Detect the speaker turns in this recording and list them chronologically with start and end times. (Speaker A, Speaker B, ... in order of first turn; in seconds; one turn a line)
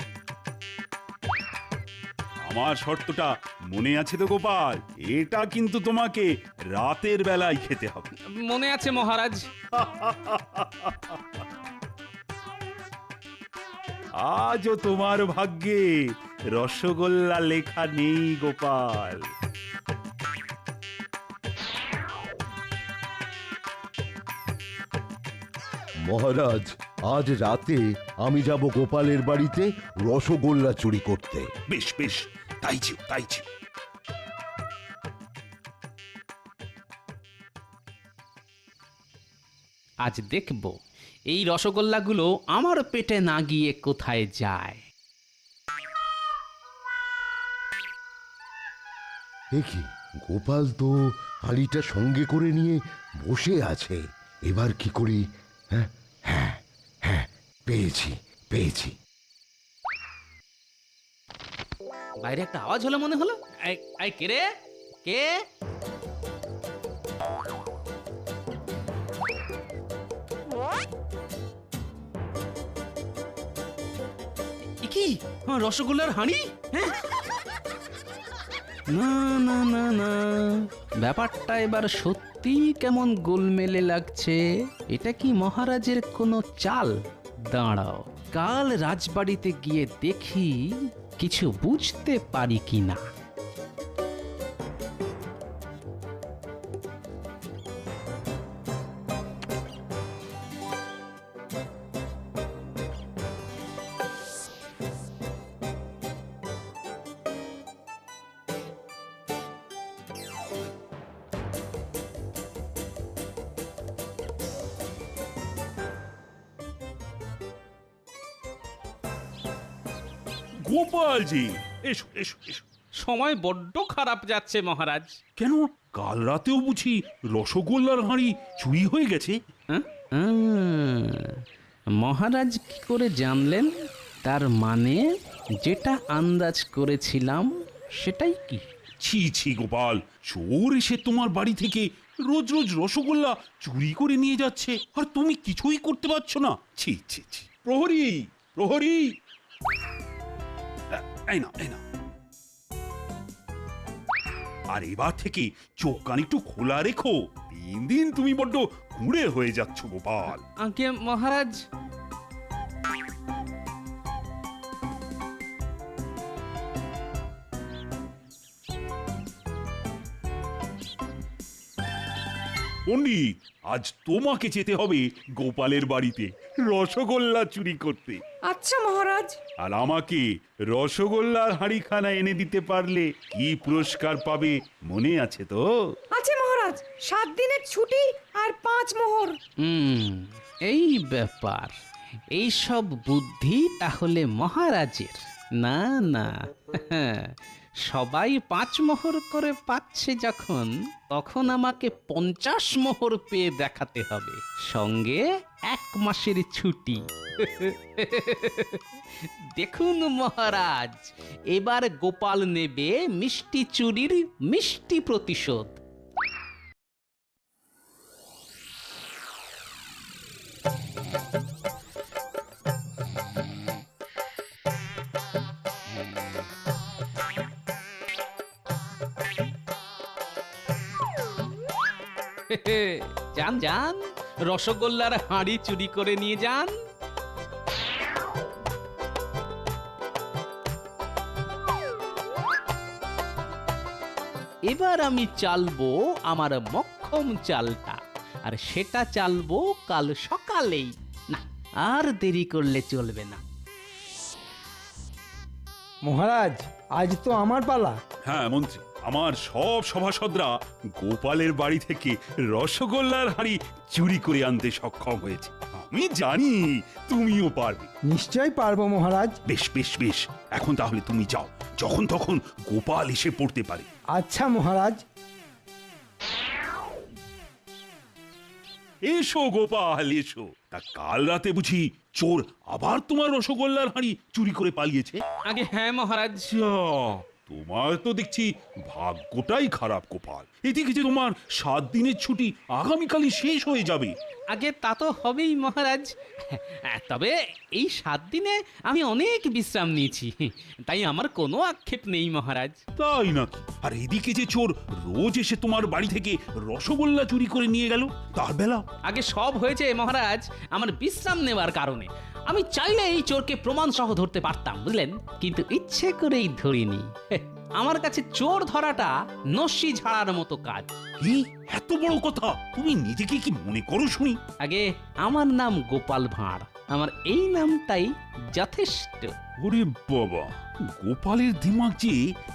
Speaker A: 2.5-8.1
Speaker B: 8.3-9.5
Speaker A: 9.7-11.2
Speaker A: 14.2-16.0
Speaker A: 16.6-19.3
Speaker C: 26.1-31.5
Speaker A: 31.7-33.5
Speaker B: 40.0-40.8
Speaker B: 41.3-44.8
Speaker C: 49.5-59.0
Speaker B: 62.2-64.5
Speaker B: 65.0-65.4
Speaker B: 74.8-77.0
Speaker B: 78.9-87.0
Speaker B: 87.5-90.6
Speaker B: 91.2-93.0
Speaker A: 120.7-122.6
Speaker B: 123.0-125.2
Speaker A: 125.4-129.4
Speaker B: 129.7-131.4
Speaker B: 131.9-133.7
Speaker B: 134.2-135.1
Speaker B: 135.6-138.6
Speaker A: 139.0-149.1
Speaker A: 150.9-151.8
Speaker A: 154.7-160.4
Speaker B: 160.6-161.6
Speaker A: 172.9-178.2
Speaker D: 178.5-179.4
Speaker A: 179.6-185.6
Speaker D: 186.1-189.4
Speaker B: 189.6-191.7
Speaker B: 192.3-197.3
Speaker B: 197.9-208.8
Speaker B: 209.6-215.8
Speaker B: 232.5-236.8
Speaker B: 244.7-253.4
Speaker E: 256.1-258.0
Speaker A: 258.3-267.9
Speaker E: 268.1-269.4
Speaker A: 269.5-273.9
Speaker E: 274.2-275.0
Speaker A: 279.1-285.2
Speaker B: 285.5-286.5
Speaker A: 286.5-294.1
Speaker B: 294.5-302.8
Speaker A: 303.0-308.8
Speaker B: 309.1-321.0
Speaker A: 321.2-324.4
Speaker B: 324.6-329.3
Speaker A: 329.6-332.2